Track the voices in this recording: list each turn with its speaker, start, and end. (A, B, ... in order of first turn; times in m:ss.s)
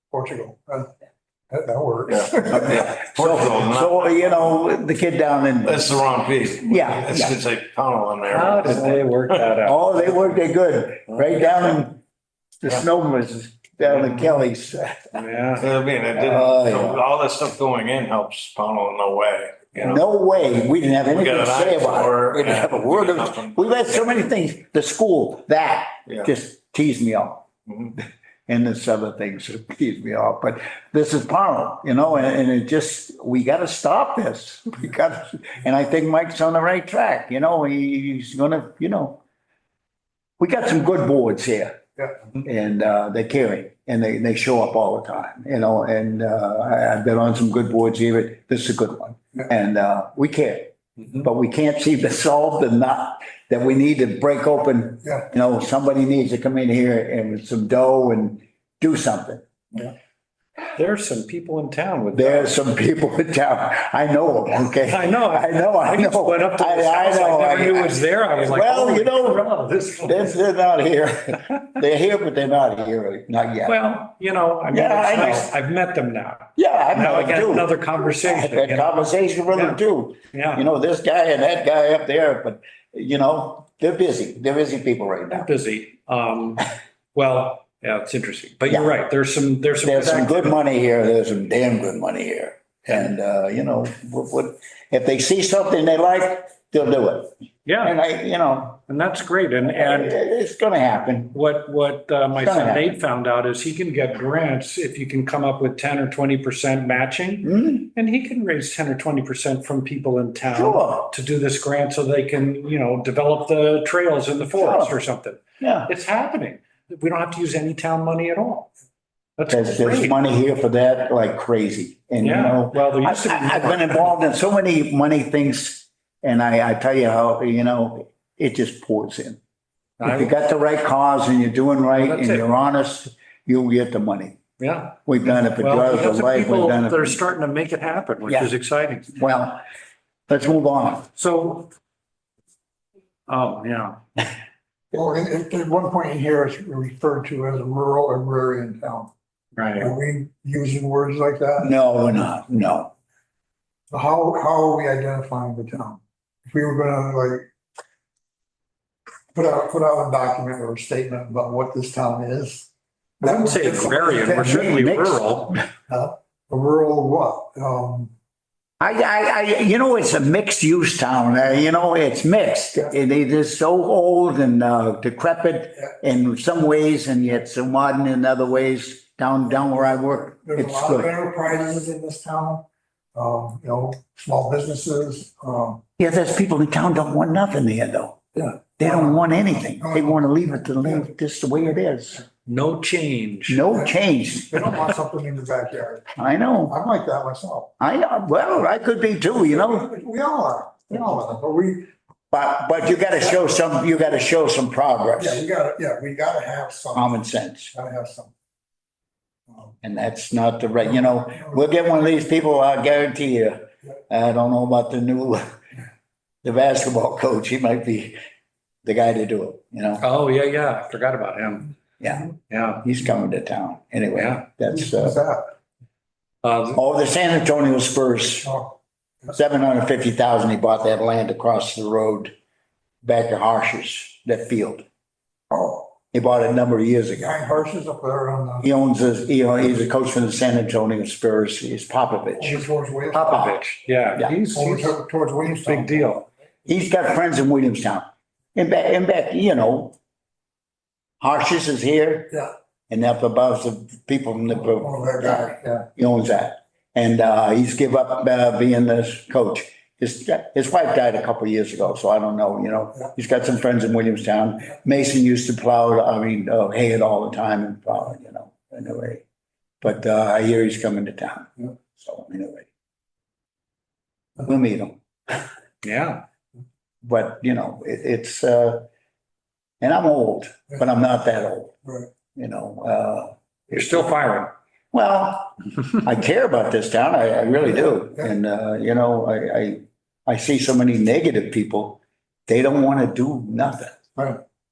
0:00.1-0:00.9 A
0:01.5-0:02.7 A
0:02.0-0:03.9 B
0:02.5-0:06.0 C
0:05.6-0:09.3 B
0:06.6-0:07.4 C
0:08.2-0:10.3 D
0:09.6-0:12.0 C
0:12.6-0:15.2 C
0:15.1-0:15.7 D
0:15.6-0:19.6 B
0:16.1-0:17.0 C
0:19.8-0:39.2 C
0:21.2-0:23.6 B
0:40.4-0:41.8 C
0:42.3-0:59.4 C
1:00.7-1:02.6 D
1:02.1-1:13.8 C
1:04.8-1:10.3 D
1:13.7-1:19.8 D
1:14.7-1:15.5 C
1:16.6-1:25.5 C
1:20.3-1:20.6 D
1:25.3-1:30.6 D
1:29.8-1:38.8 C
1:37.7-1:38.0 D
1:38.9-1:40.2 D
1:39.7-1:41.4 C
1:41.3-1:58.7 D
1:42.3-1:43.0 C
1:47.4-1:47.9 C
1:50.5-1:51.1 C
1:54.5-1:55.0 C
1:55.6-1:55.9 C
1:59.4-2:00.2 D
1:59.5-2:09.4 C
2:02.2-2:04.1 D
2:10.0-2:10.3 D
2:10.0-2:14.4 C
2:12.0-2:12.5 D
2:14.6-2:15.0 D
2:15.1-2:17.2 C
2:15.6-2:19.1 D
2:18.2-2:18.5 C
2:19.1-2:19.6 C
2:20.3-2:21.1 C
2:21.2-2:21.7 D
2:23.3-2:24.0 D
2:24.9-2:29.1 A
2:29.6-2:29.9 D
2:29.8-2:31.7 A
2:31.6-2:32.9 C
2:33.9-2:37.4 A
2:39.3-2:42.7 A
2:43.2-2:44.4 A
2:43.2-2:45.6 D
2:44.1-2:45.7 C
2:45.9-2:48.1 A
2:48.8-3:01.1 C
3:00.4-3:02.6 A
3:03.2-3:05.8 A
3:06.0-3:08.2 C
3:08.4-3:09.2 A
3:08.8-3:12.2 C
3:09.8-3:10.2 A
3:12.5-3:13.6 D
3:13.5-3:14.8 C
3:14.5-3:16.0 A
3:16.2-3:16.8 C
3:16.7-3:17.7 A
3:17.8-3:19.9 C
3:19.5-3:21.8 A
3:22.3-3:25.4 C
3:25.2-3:27.0 A
3:26.9-3:27.7 C
3:27.8-3:28.3 A
3:29.8-3:35.4 C
3:36.4-3:38.2 C
3:38.8-3:40.0 C
3:40.0-3:41.7 D
3:42.0-3:45.2 C
3:42.5-3:42.8 D
3:44.2-3:44.4 D
3:44.8-3:45.5 A
3:46.4-3:46.8 D
3:46.8-3:48.5 C
3:49.3-3:52.3 C
3:53.0-3:54.9 C
3:55.5-3:55.9 A
3:56.1-3:57.4 C
3:57.2-3:58.7 A
3:58.6-4:02.7 C
4:02.4-4:03.4 A
4:03.1-4:06.3 D
4:03.3-4:03.6 C
4:04.5-4:06.1 A
4:06.7-4:09.9 C
4:11.2-4:12.4 C
4:12.9-4:29.2 C
4:14.8-4:15.8 A
4:29.8-4:32.7 C
4:34.4-4:35.4 C
4:35.8-4:36.2 D
4:37.0-4:38.8 C
4:39.8-4:41.8 C
4:42.4-4:44.1 C
4:43.7-4:44.5 D
4:44.9-4:54.0 C